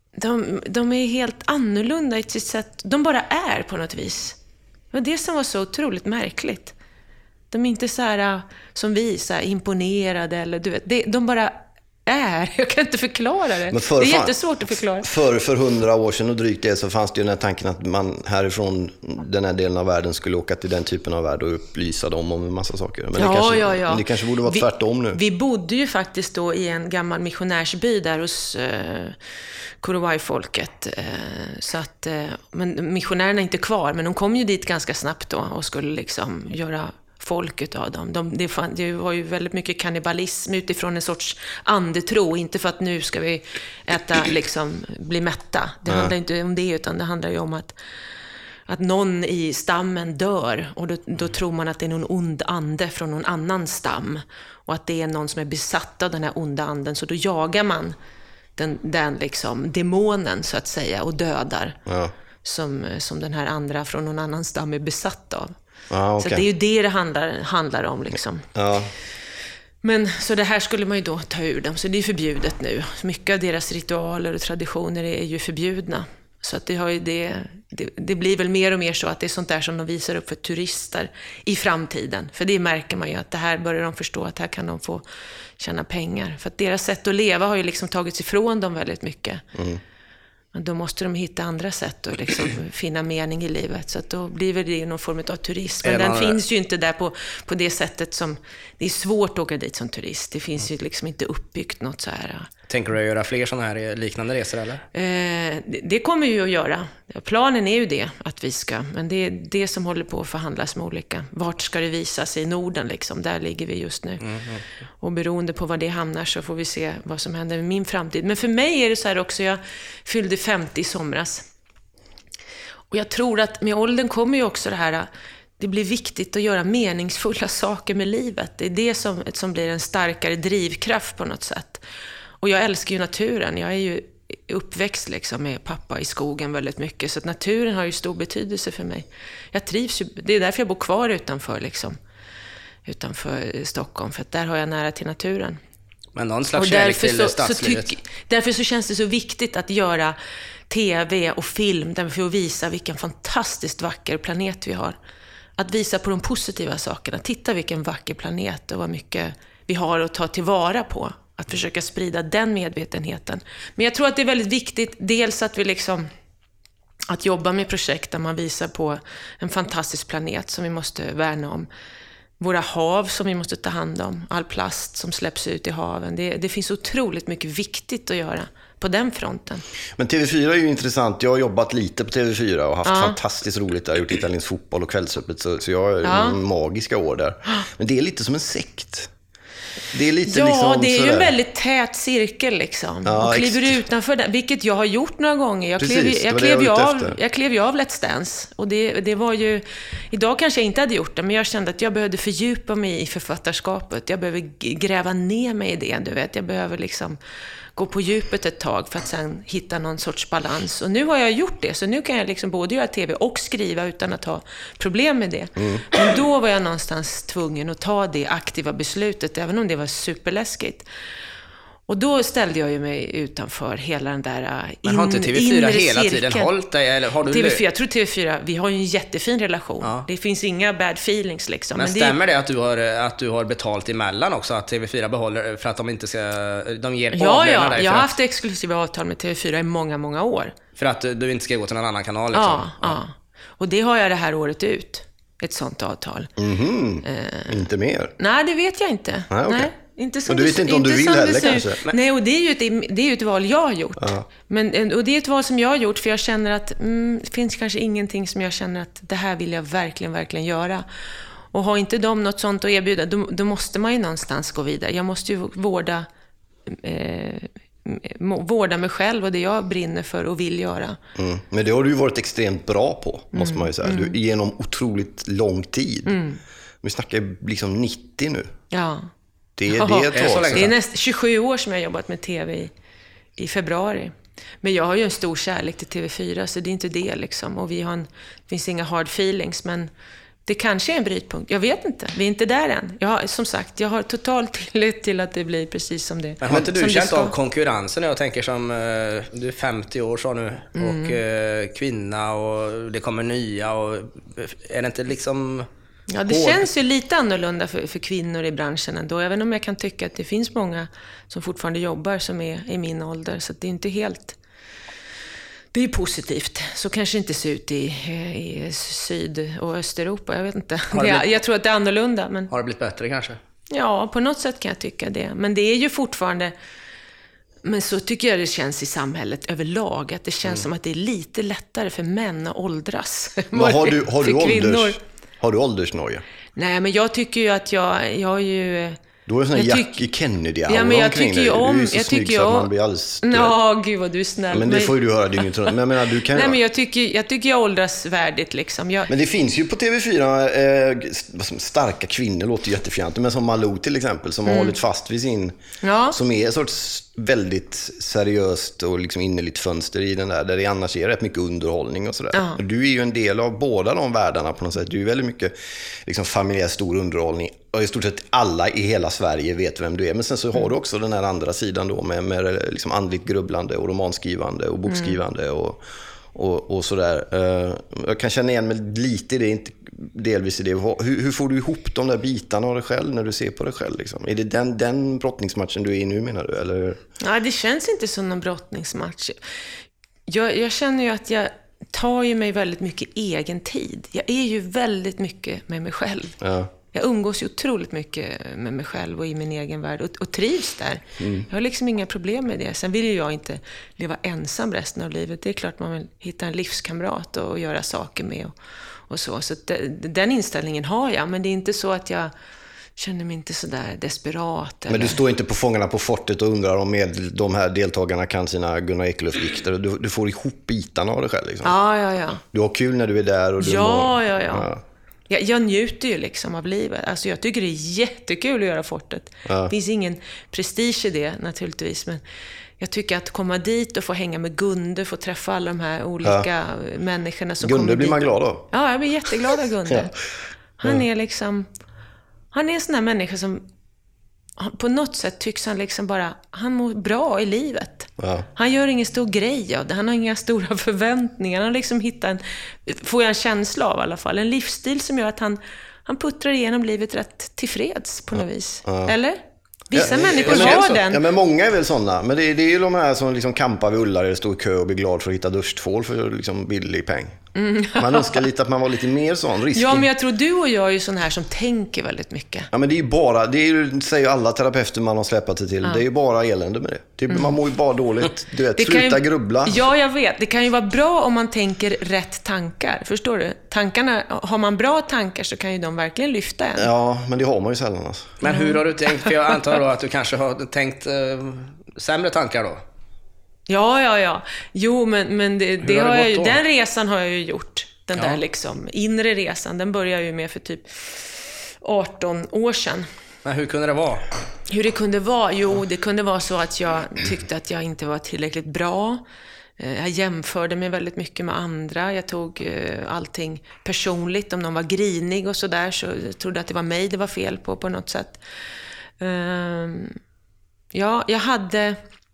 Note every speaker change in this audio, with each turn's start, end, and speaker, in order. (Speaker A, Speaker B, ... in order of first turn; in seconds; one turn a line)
Speaker A: 0.1-4.4
Speaker A: 4.9-6.7
Speaker A: 7.5-11.5
Speaker A: 12.1-15.1
Speaker B: 13.7-25.2
Speaker A: 23.1-29.2
Speaker A: 29.8-47.8
Speaker A: 48.7-57.9
Speaker A: 58.6-61.8
Speaker B: 61.9-62.1
Speaker A: 62.4-65.5
Speaker B: 65.9-66.4
Speaker A: 66.2-68.5
Speaker B: 68.5-68.9
Speaker A: 69.8-85.0
Speaker A: 85.6-89.5
Speaker B: 89.5-89.8
Speaker A: 90.5-102.5
Speaker C: 95.8-96.4
Speaker C: 102.7-104.8
Speaker A: 104.9-114.2
Speaker C: 114.2-114.6
Speaker A: 115.0-121.5
Speaker A: 122.9-125.1
Speaker A: 125.6-131.8
Speaker A: 132.4-142.0
Speaker A: 142.8-145.6
Speaker C: 146.1-147.9
Speaker A: 146.5-150.2
Speaker A: 150.7-154.9
Speaker A: 155.6-166.1
Speaker A: 167.1-171.7
Speaker A: 172.4-179.6
Speaker B: 179.9-189.1
Speaker A: 182.8-183.2
Speaker A: 186.0-186.4
Speaker B: 189.9-191.3
Speaker A: 190.2-207.2
Speaker B: 193.0-193.8
Speaker B: 195.8-197.2
Speaker A: 207.8-220.8
Speaker B: 215.6-216.0
Speaker A: 221.9-226.5
Speaker C: 224.8-227.6
Speaker A: 227.2-232.2
Speaker C: 229.8-230.1
Speaker C: 231.7-238.2
Speaker A: 237.1-240.5
Speaker C: 240.8-243.0
Speaker A: 242.3-246.3
Speaker B: 246.4-248.1
Speaker A: 247.0-247.6
Speaker A: 248.2-260.9
Speaker B: 249.3-249.7
Speaker B: 250.3-251.8
Speaker B: 254.0-254.2
Speaker A: 261.5-266.1
Speaker A: 266.7-271.0
Speaker B: 271.1-276.2
Speaker A: 273.3-274.1
Speaker A: 276.1-276.4
Speaker B: 276.8-278.5
Speaker A: 278.7-279.1
Speaker B: 279.6-280.7
Speaker A: 279.7-282.7
Speaker C: 280.1-280.7
Speaker A: 283.4-289.9
Speaker A: 290.4-297.3
Speaker C: 296.4-305.7
Speaker A: 300.8-301.2
Speaker A: 306.1-314.4
Speaker C: 306.3-306.6
Speaker A: 315.7-322.5
Speaker C: 320.9-321.4
Speaker C: 322.5-323.4
Speaker A: 323.7-326.5
Speaker A: 327.6-335.0
Speaker B: 333.5-336.2
Speaker A: 336.6-339.0
Speaker B: 339.2-343.6
Speaker A: 339.5-340.0
Speaker A: 340.7-342.7
Speaker A: 343.2-345.0
Speaker B: 344.5-346.6
Speaker A: 346.3-349.1
Speaker B: 349.1-355.6
Speaker A: 354.4-354.7
Speaker A: 355.8-356.2
Speaker B: 356.1-365.5
Speaker A: 362.3-362.6
Speaker B: 366.0-387.0
Speaker A: 374.9-375.2
Speaker A: 387.2-389.4
Speaker A: 390.3-396.4
Speaker B: 396.4-396.7
Speaker A: 396.9-408.5
Speaker B: 401.2-401.4
Speaker A: 409.1-412.3
Speaker A: 413.0-415.2
Speaker B: 414.9-421.7
Speaker A: 421.6-422.4
Speaker B: 422.5-424.8
Speaker A: 423.6-424.7
Speaker A: 425.3-432.2
Speaker B: 429.4-429.7
Speaker A: 432.8-440.2
Speaker B: 437.6-438.6
Speaker B: 439.3-440.0
Speaker A: 440.8-441.7
Speaker A: 442.5-443.6
Speaker A: 444.6-461.2
Speaker B: 448.2-448.5
Speaker B: 458.9-459.1
Speaker B: 459.9-467.4
Speaker C: 460.0-460.9
Speaker A: 467.5-468.4
Speaker B: 467.9-470.1
Speaker A: 469.7-472.7
Speaker B: 472.7-479.9
Speaker A: 478.8-486.9
Speaker B: 486.8-488.4
Speaker C: 488.4-492.8
Speaker A: 488.4-489.5
Speaker A: 493.7-503.1
Speaker C: 495.8-496.6
Speaker C: 503.4-504.3
Speaker A: 504.7-509.2
Speaker A: 509.8-518.4
Speaker A: 519.2-520.2
Speaker A: 520.9-522.0